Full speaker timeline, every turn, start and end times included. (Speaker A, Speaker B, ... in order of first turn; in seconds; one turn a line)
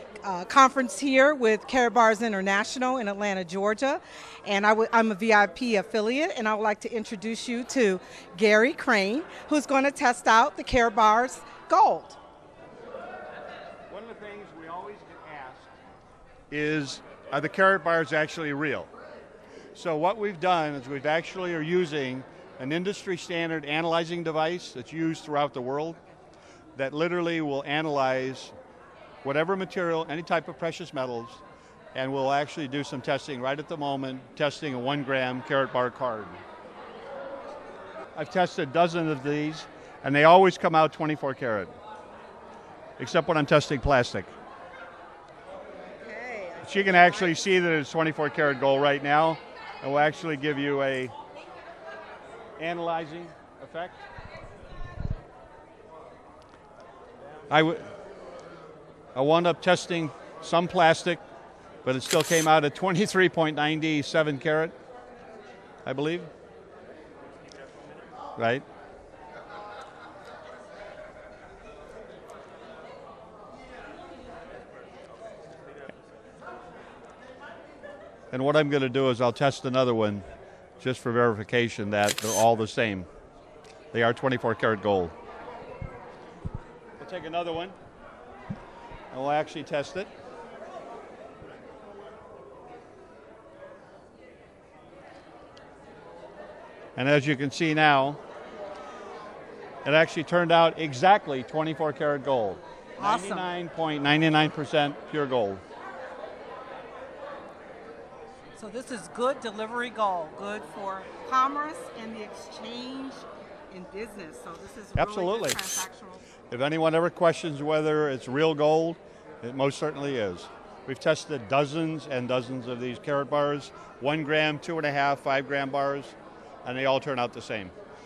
Speaker A: 0.2-12.2
Speaker B: 13.9-15.7
Speaker B: 16.5-18.9
Speaker B: 19.7-26.0
Speaker B: 26.8-28.5
Speaker B: 29.2-31.4
Speaker B: 31.9-36.4
Speaker B: 38.2-41.7
Speaker B: 43.0-44.3
Speaker A: 46.0-47.4
Speaker B: 46.6-51.1
Speaker B: 52.6-54.0
Speaker B: 57.5-57.9
Speaker B: 59.1-61.2
Speaker B: 61.8-64.7
Speaker B: 65.8-66.3
Speaker B: 68.4-68.6
Speaker B: 78.3-80.2
Speaker B: 80.8-83.1
Speaker B: 83.9-85.1
Speaker B: 87.0-87.8
Speaker B: 89.1-90.1
Speaker B: 97.0-98.2
Speaker B: 99.8-105.6
Speaker A: 103.0-103.5
Speaker A: 108.5-116.2
Speaker B: 115.0-115.8
Speaker B: 116.5-127.7